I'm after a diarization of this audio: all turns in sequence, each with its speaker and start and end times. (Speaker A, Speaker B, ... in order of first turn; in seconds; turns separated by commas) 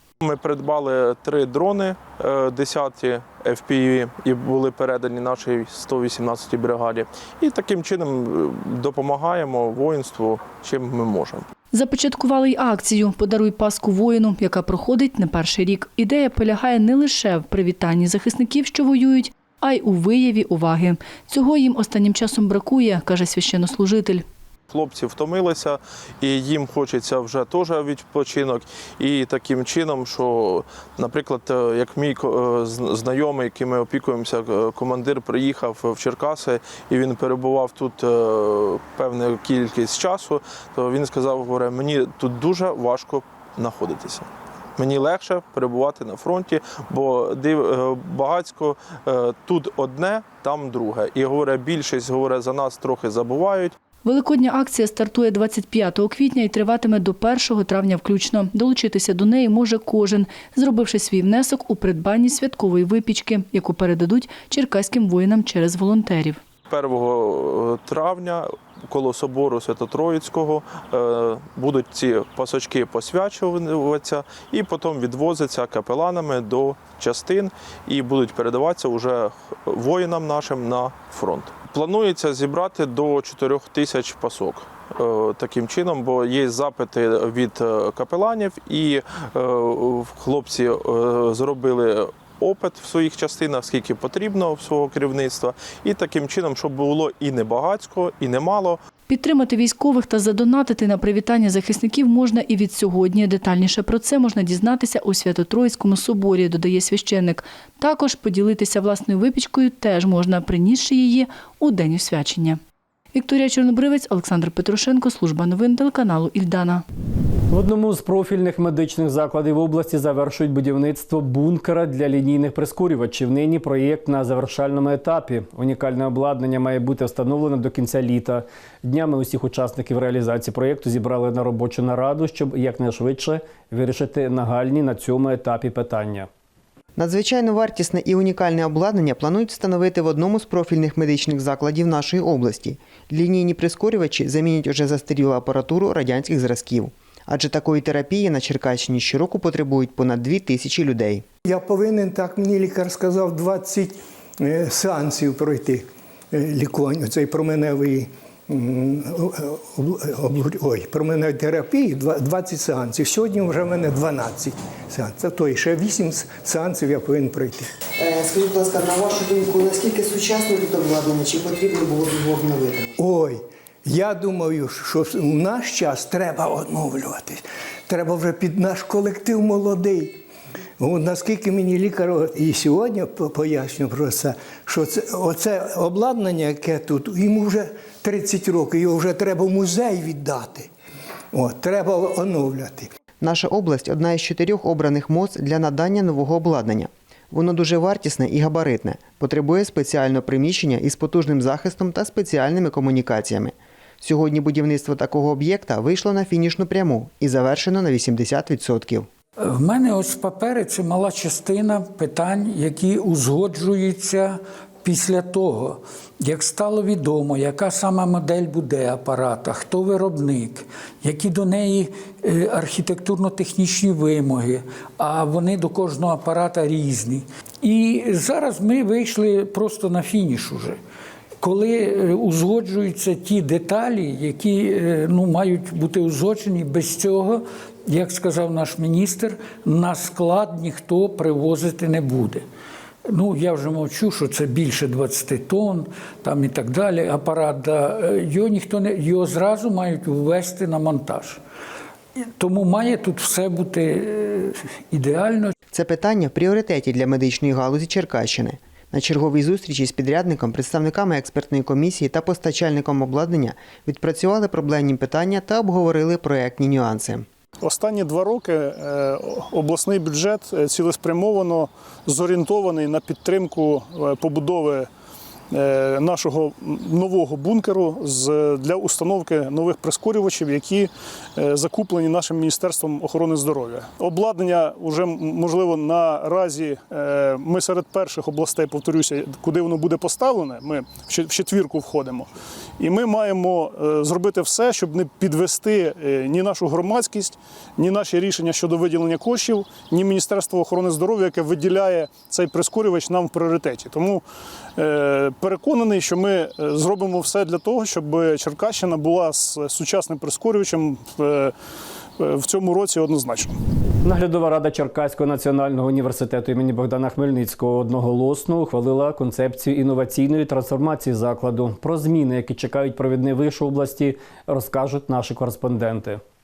Speaker A: 0.2-11.5, Speaker B: 11.7-24.2, Speaker A: 24.7-53.7, Speaker B: 54.0-66.4, Speaker A: 66.7-98.8, Speaker B: 99.1-112.6, Speaker B: 113.1-116.8, Speaker C: 117.5-136.3, Speaker D: 136.9-151.2, Speaker E: 151.5-167.7, Speaker D: 168.0-172.9, Speaker E: 173.0-180.2, Speaker E: 180.8-190.7, Speaker E: 191.3-192.9, Speaker D: 193.2-209.1, Speaker F: 209.4-230.8, Speaker F: 231.4-242.4, Speaker F: 243.1-251.4, Speaker F: 252.3-255.5, Speaker D: 255.7-267.2, Speaker G: 267.6-274.9, Speaker G: 275.5-304.2, Speaker G: 304.8-311.5, Speaker G: 312.2-313.6, Speaker C: 314.0-326.2